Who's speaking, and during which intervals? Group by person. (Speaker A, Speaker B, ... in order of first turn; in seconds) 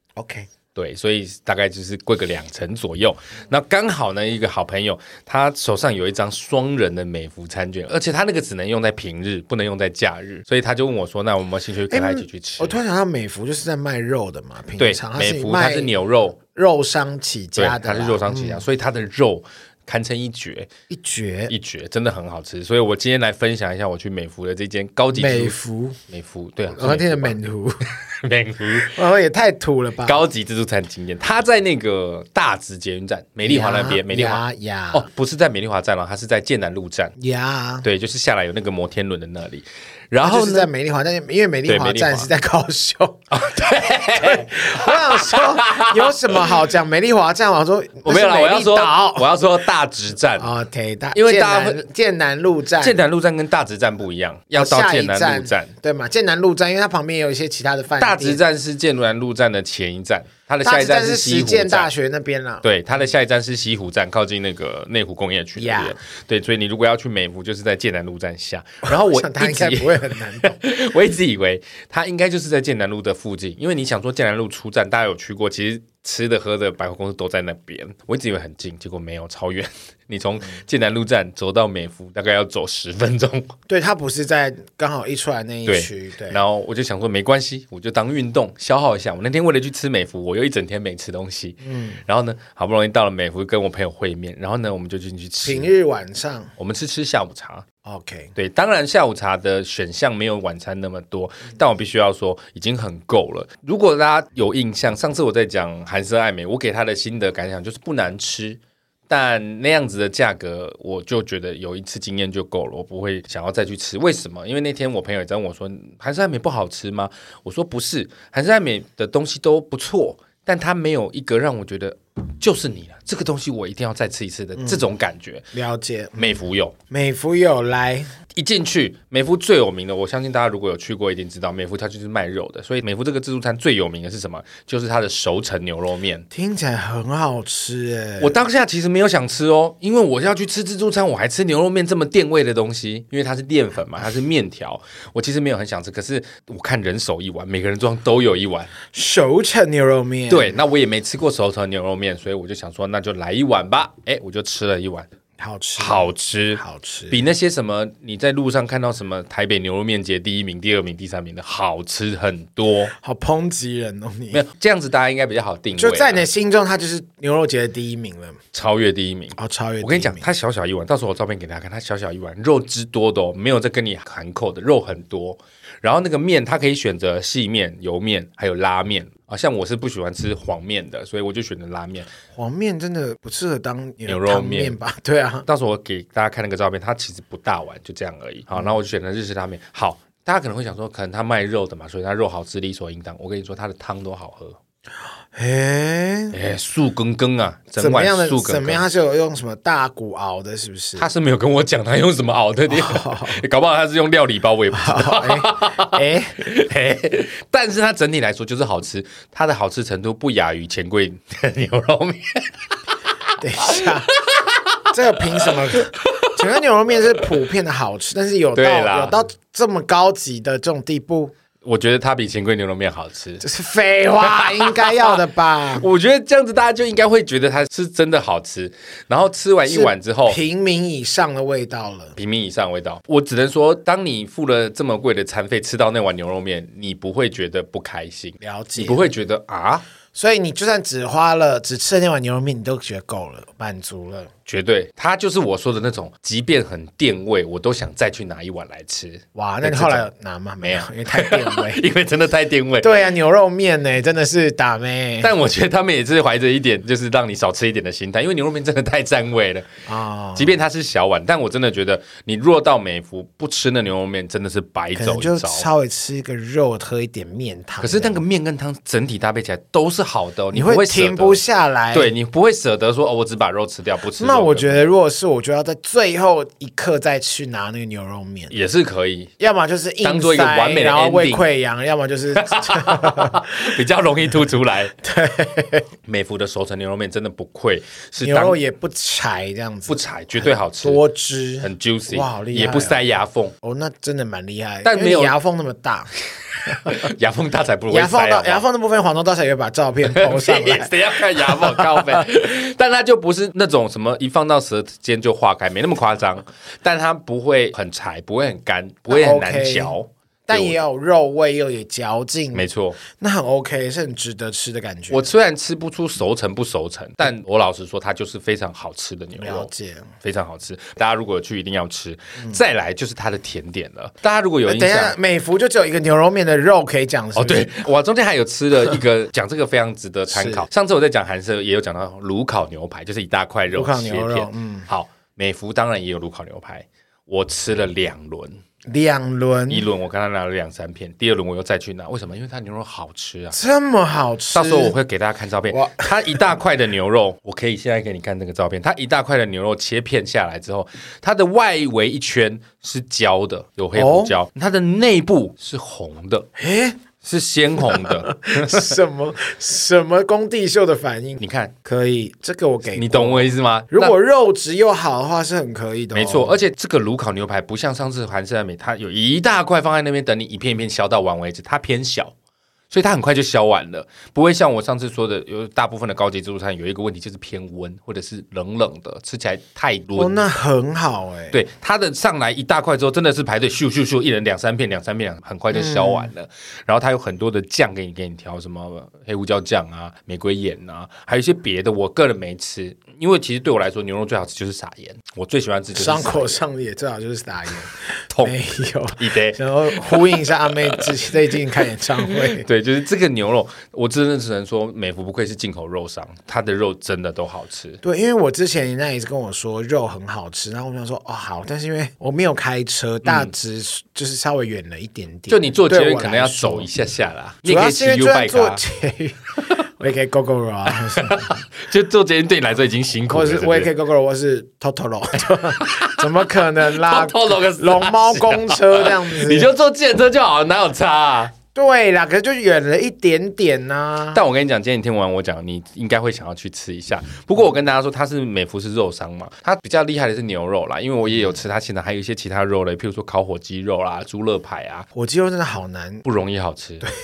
Speaker A: 0.2-0.5, 11.9-16.0, 16.5-18.6, 20.9-21.5, 25.1-26.0, 26.7-27.9, 28.9-30.2, 33.5-35.0, 37.2-37.9, 40.2-43.2, 44.1-49.4, 50.4-53.0, 54.6-58.4, 60.6-62.6, 65.6-66.0, 68.8-70.6, 83.7-86.4, 91.6-92.0, 95.4-96.5, 97.8-98.3, 124.6-124.8, 125.5-128.1, 136.3-138.3, 148.9-150.6, 155.4-157.2, 162.9-164.4, 165.8-168.4, 169.4-170.3, 182.3-185.4, 195.3-196.4, 197.8-201.1, 202.7-203.4, 204.7-206.4, 213.4-214.1, 214.9-221.3, 223.4-225.9, 229.7-232.2, 238.4-239.1, 240.1-244.3, 249.3-251.8, 252.8-255.3, 259.9-260.6, 264.9-268.2, 270.5-272.1, 274.2-278.5, 279.4-283.6, 285.0-285.9, 288.2-293.0, 293.6-296.1, 296.6-297.1, 297.9-302.2, 309.1-309.9, 310.5-315.3, 319.4-320.1, 324.7-327.9, 330.3-330.7, 333.7-334.9, 338.9-339.9, 343.5-344.9, 345.7-346.4, 353.9-354.3, 356.6-357.0, 357.9-366.6, 380.2-381.6, 385.7-386.3, 395.9-402.6, 408.0-416.9, 417.6-421.5, 423.3-429.7, 431.7-434.4, 445.1-446.2
Speaker B: 0.8-12.8, 14.8-16.4, 17.6-20.7, 21.5-25.6, 26.1-27.4, 28.0-29.0, 30.0-37.1, 37.8-40.7, 41.7-42.3, 43.3-46.5, 48.0-50.5, 51.1-51.8, 52.8-55.7, 58.0-61.9, 62.6-83.5, 85.7-95.7, 96.6-97.7, 98.4-125.5, 126.2-126.8, 128.3-136.2, 138.2-148.7, 150.3-155.1, 155.8-162.9, 164.3-166.2, 168.5-182.1, 184.1-184.8, 185.5-194.6, 196.3-198.9, 201.0-212.9, 213.6-214.8, 215.4-216.5, 218.6-219.2, 221.6-223.4, 224.2-230.4, 232.2-239.8, 244.5-250.1, 250.6-252.9, 255.2-259.7, 260.4-265.7, 267.8-274.9, 278.5-279.3, 280.0-281.5, 282.4-284.9, 286.1-288.6, 289.9-291.0, 291.6-293.5, 294.8-295.3, 296.6-298.6, 300.1-310.8, 312.5-313.0, 315.1-319.7, 320.2-325.2, 327.4-338.6, 339.7-343.6, 344.5-356.5, 357.2-359.0, 361.4-361.8, 362.9-364.1, 366.1-372.3, 372.9-380.4, 381.5-396.6, 398.3-398.6, 399.2-401.3, 402.2-408.0, 413.2-413.5, 415.5-418.8, 420.9-423.9, 425.5-426.3, 426.8-431.6, 434.3-445.1, 446.2-447.1